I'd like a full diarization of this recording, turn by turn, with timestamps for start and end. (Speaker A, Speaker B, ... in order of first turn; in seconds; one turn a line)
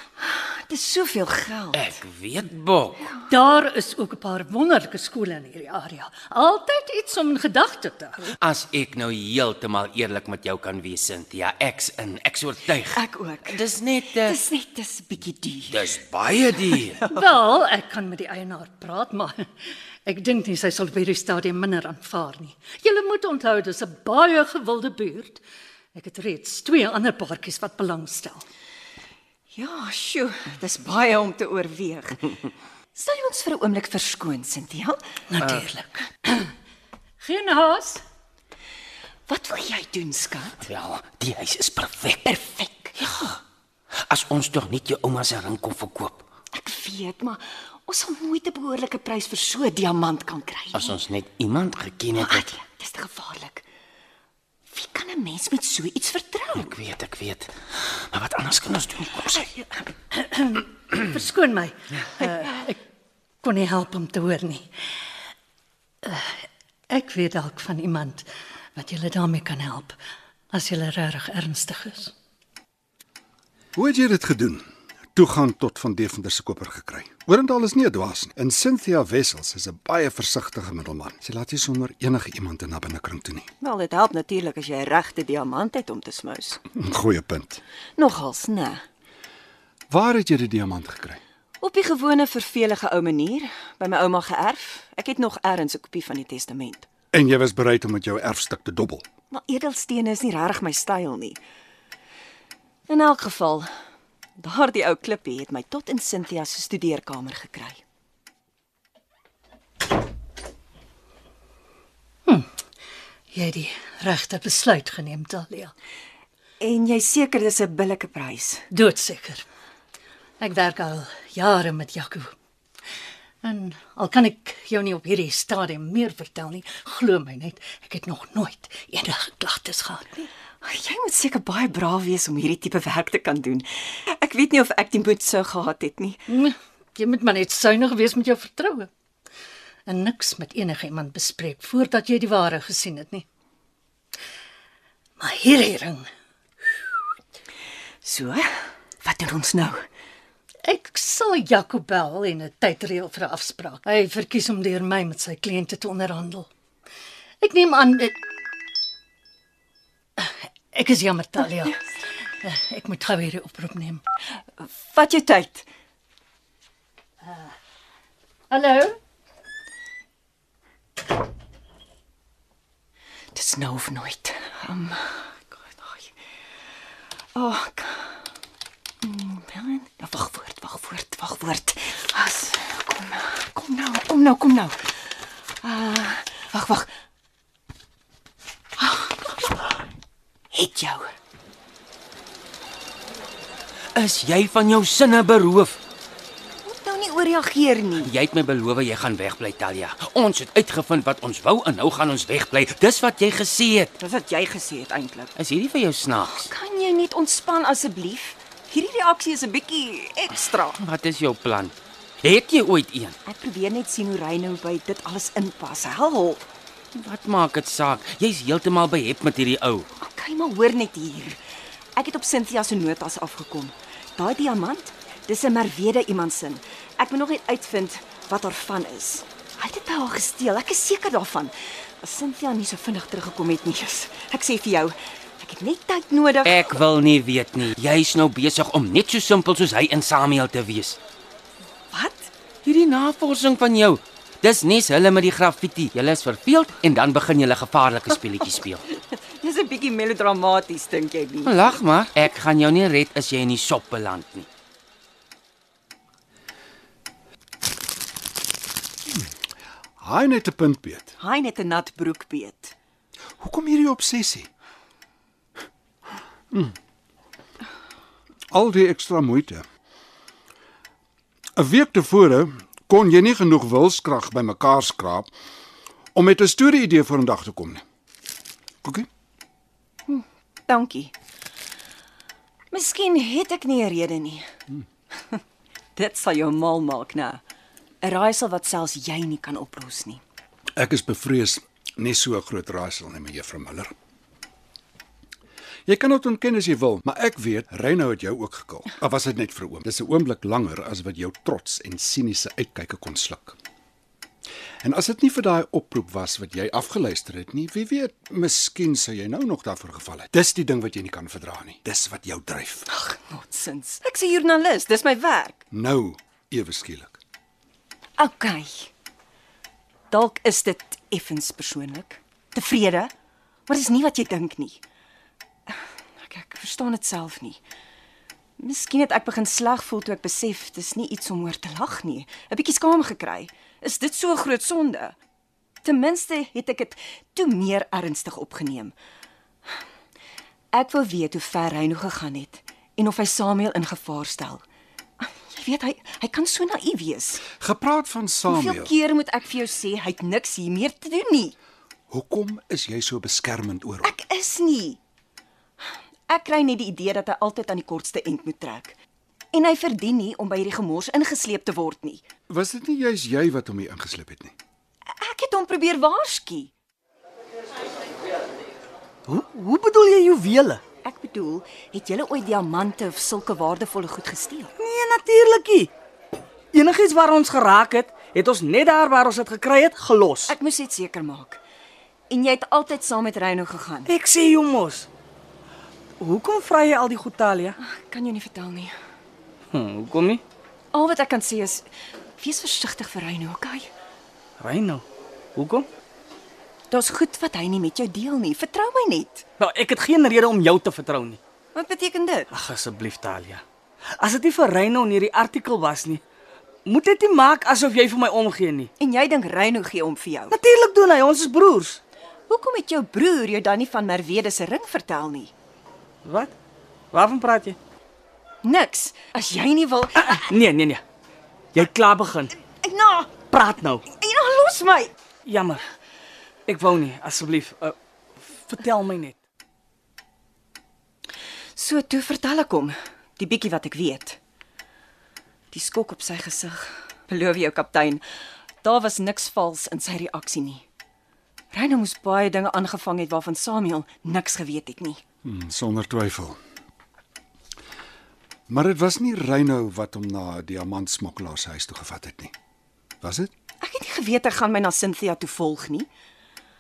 Speaker A: 0.2-1.9
Speaker B: 1.7-3.1
Speaker C: 3.3-8.3
Speaker B: 8.4-14.4
Speaker A: 12.9-13.6
Speaker A: 14.2-15.9
Speaker B: 15.7-17.0
Speaker C: 17.1-19.5
Speaker C: 20.0-25.4
Speaker C: 25.9-28.4
Speaker A: 29.5-32.2
Speaker A: 33.0-35.0
Speaker C: 35.3-36.5
Speaker C: 37.2-38.0
Speaker A: 39.3-40.7
Speaker B: 40.6-42.3
Speaker A: 42.2-43.4
Speaker B: 44.0-46.2
Speaker A: 46.5-51.0
Speaker B: 50.7-52.5
Speaker A: 52.2-53.6
Speaker A: 54.7-56.7
Speaker B: 56.5-59.5
Speaker C: 60.1-62.8
Speaker C: 63.4-64.7
Speaker C: 66.0-66.3
Speaker C: 66.9-70.0
Speaker C: 70.5-72.1
Speaker D: 73.7-83.5
Speaker A: 83.6-86.6
Speaker D: 86.7-87.6
Speaker A: 88.0-88.8
Speaker D: 89.9-91.2
Speaker A: 91.6-96.9
Speaker D: 97.1-99.0
Speaker A: 99.3-101.4
Speaker A: 102.9-103.7
Speaker A: 104.4-107.8
Speaker C: 112.2-112.5
Speaker C: 113.3-115.7
Speaker A: 116.6-118.6
Speaker C: 118.7-119.4
Speaker C: 120.4-122.3
Speaker C: 123.4-130.3
Speaker A: 130.6-136.2
Speaker C: 136.3-138.9
Speaker C: 139.9-143.2
Speaker C: 145.2-146.1
Speaker A: 148.0-149.8
Speaker C: 150.6-156.5
Speaker C: 157.4-158.2
Speaker C: 160.2-161.8
Speaker C: 162.4-164.0
Speaker A: 164.6-165.7
Speaker C: 168.5-169.0
Speaker A: 173.3-176.1
Speaker A: 177.3-178.2
Speaker A: 179.0-184.8
Speaker A: 185.6-186.9
Speaker A: 188.8-189.6
Speaker A: 190.5-191.1
Speaker B: 193.9-195.8
Speaker A: 196.6-198.1
Speaker B: 198.0-203.9
Speaker A: 204.0-205.3
Speaker B: 205.4-206.5
Speaker A: 206.3-210.8
Speaker B: 210.8-213.2
Speaker A: 213.2-216.4
Speaker B: 216.9-219.9
Speaker A: 220.0-221.4
Speaker A: 221.9-236.7
Speaker B: 236.4-241.0
Speaker A: 241.9-242.3
Speaker B: 242.6-248.8
Speaker A: 249.1-251.8
Speaker B: 251.4-254.5
Speaker D: 260.0-261.1
Speaker A: 261.2-262.7
Speaker D: 263.4-264.5
Speaker D: 266.5-266.8
Speaker D: 268.5-269.6
Speaker D: 271.6-275.3
Speaker D: 276.1-277.8
Speaker A: 280.1-281.1
Speaker A: 282.7-284.5
Speaker A: 285.9-287.4
Speaker A: 288.0-290.2
Speaker D: 290.8-293.9
Speaker D: 295.9-303.6
Speaker D: 304.8-312.9
Speaker A: 312.9-315.6
Speaker D: 315.7-317.2
Speaker A: 318.2-318.9
Speaker A: 320.1-323.1
Speaker A: 323.7-324.8
Speaker A: 325.7-327.6
Speaker A: 328.6-335.1
Speaker A: 335.8-338.9
Speaker A: 340.7-344.6
Speaker A: 345.2-347.4
Speaker D: 347.5-348.9
Speaker A: 348.5-351.6
Speaker D: 352.1-354.1
Speaker A: 354.0-355.0
Speaker A: 356.3-358.9
Speaker A: 359.5-362.2
Speaker D: 362.5-364.5
Speaker A: 365.1-366.7
Speaker E: 369.3-370.8
Speaker A: 371.0-374.7
Speaker E: 374.8-375.9
Speaker E: 376.7-380.5
Speaker A: 380.5-381.6
Speaker A: 382.3-384.1
Speaker E: 384.1-385.1
Speaker E: 386.2-387.8
Speaker A: 387.8-388.9
Speaker E: 389.7-390.4
Speaker A: 390.9-393.9
Speaker E: 394.6-395.0
Speaker E: 395.6-395.9
Speaker A: 396.9-399.4
Speaker E: 399.6-401.4
Speaker A: 401.7-402.5
Speaker E: 402.5-403.6
Speaker E: 404.2-406.2
Speaker E: 406.9-408.9
Speaker A: 409.0-410.5
Speaker E: 410.5-412.0
Speaker A: 412.5-415.5
Speaker E: 416.2-416.5
Speaker E: 417.1-417.8
Speaker A: 418.6-420.5
Speaker E: 420.2-421.0
Speaker E: 421.7-422.5
Speaker A: 422.8-423.3
Speaker E: 423.5-424.0
Speaker A: 424.1-425.1
Speaker E: 425.4-425.8
Speaker E: 426.7-427.9
Speaker E: 428.5-429.4
Speaker A: 431.8-434.4
Speaker A: 435.7-438.2
Speaker A: 438.8-440.8
Speaker A: 441.7-445.2
Speaker D: 445.4-446.6
Speaker D: 448.7-452.5
Speaker D: 453.2-453.5
Speaker A: 453.8-456.1